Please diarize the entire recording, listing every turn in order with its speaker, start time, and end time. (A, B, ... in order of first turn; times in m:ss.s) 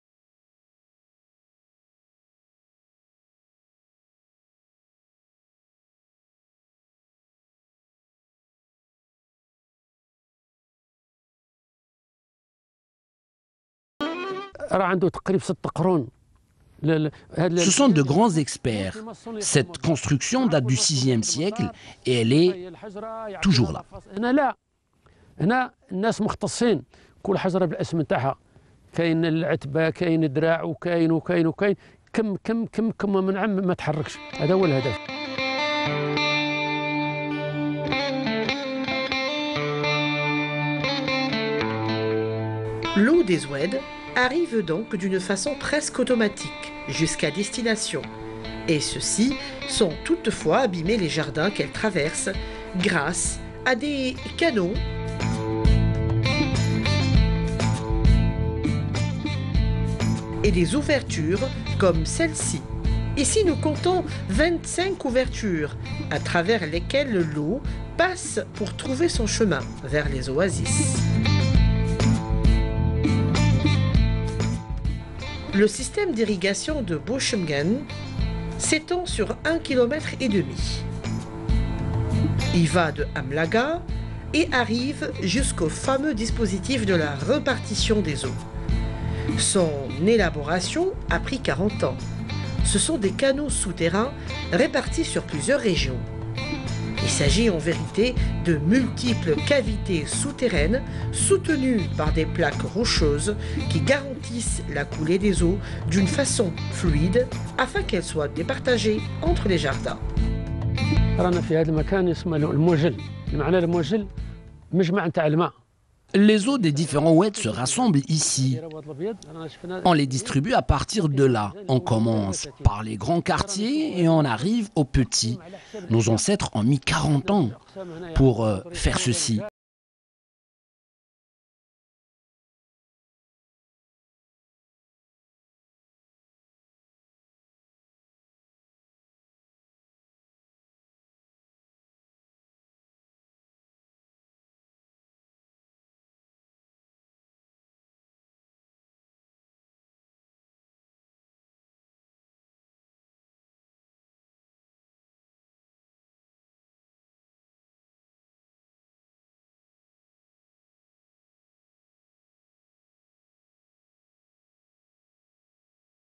0:14.7-0:16.1 A
0:16.8-0:24.6 A
0:17.6-0:22.6 B
0:23.4-0:23.8 B
0:25.4-0:28.4 A
0:28.9-0:35.0 A
0:42.9-0:48.1 C
0:48.7-0:54.8 C
1:00.4-1:11.0 C
1:15.5-1:17.9 C
1:18.6-1:20.8 C
1:22.5-1:28.4 C
1:29.4-1:32.0 C
1:32.6-1:36.1 C
1:37.0-1:50.0 C
1:51.2-1:54.1 A
1:54.7-1:55.5 A
1:56.1-1:58.6 B
1:56.5-2:00.4 A
1:59.8-2:07.5 B
2:01.0-2:02.7 A
2:03.3-2:04.5 A
2:05.0-2:06.2 A
2:07.2-2:09.5 A
2:08.1-2:09.4 B